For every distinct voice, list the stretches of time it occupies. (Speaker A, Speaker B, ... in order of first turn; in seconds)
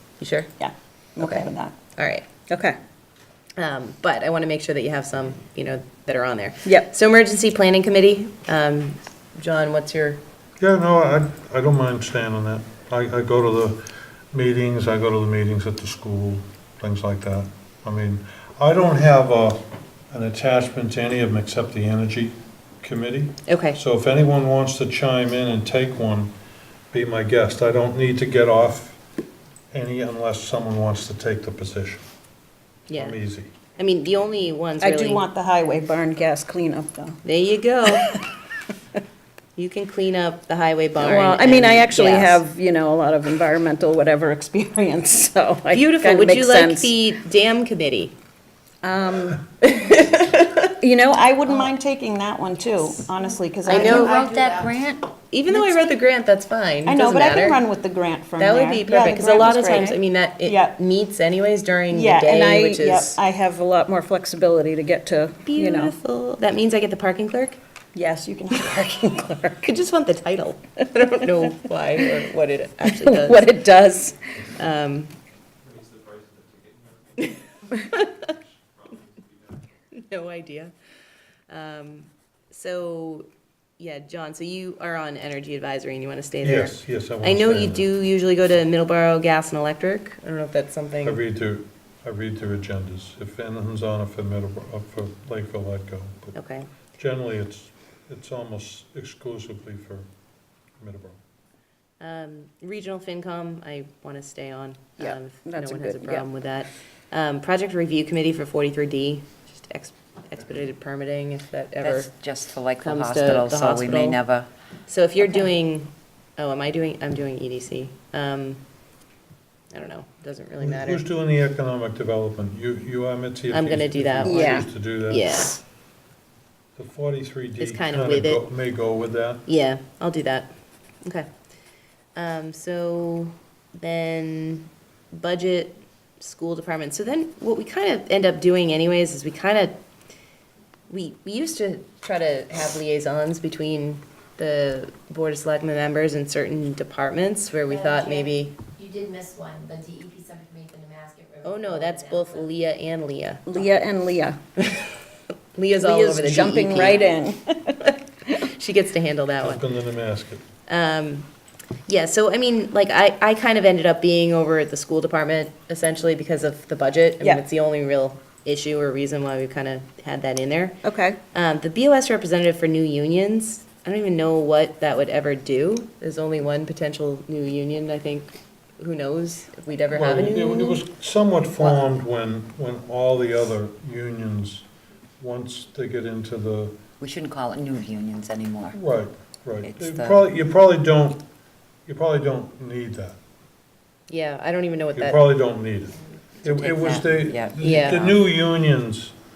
Speaker A: 0.2-0.5, 1.2-2.3, 3.6-10.2, 23.5-23.8, 32.9-33.2, 33.8-35.2, 37.2-38.1, 39.5-42.4, 45.7-48.1, 49.6-50.7, 53.7-54.2, 55.3-57.6, 58.4-63.2, 65.5-67.6, 69.2-73.7, 74.3-75.2, 77.2-78.3, 79.9-80.7, 81.5-83.2, 83.8-91.2, 96.3-96.7, 102.0-112.1, 112.8-114.2, 114.9-118.6, 119.7-121.0, 123.5-125.5, 127.6-128.4, 129.4-130.5, 132.2-139.7, 140.9-148.6, 151.4-153.6, 154.6-155.0, 155.5-157.1, 157.8-159.6, 160.7-161.3, 161.8-170.8, 171.3-180.8, 194.1-195.2, 197.6-198.1
Speaker B: 0.6-1.7, 2.5-2.8, 34.8-37.2, 37.9-38.2, 41.0-46.9, 48.8-49.4, 50.8-54.7, 55.5-55.9, 56.8-60.7, 61.9-66.0, 67.9-69.5, 72.8-74.2, 105.0-106.2, 124.2-124.7, 153.4-154.4, 155.8-157.9, 170.8-171.2
Speaker C: 10.6-26.3, 26.9-29.0, 29.7-32.0, 32.9-33.5, 86.4-87.9, 91.0-96.4, 97.0-100.1, 100.8-101.2, 120.6-125.5, 126.8-129.4, 159.4-160.4, 179.9-184.7, 185.2-186.8, 188.7-191.2, 191.9-193.2, 194.9-199.1
Speaker D: 53.6-55.1, 111.8-114.5, 187.0-188.8, 189.6-190.2, 196.4-198.2
Speaker E: 147.7-152.4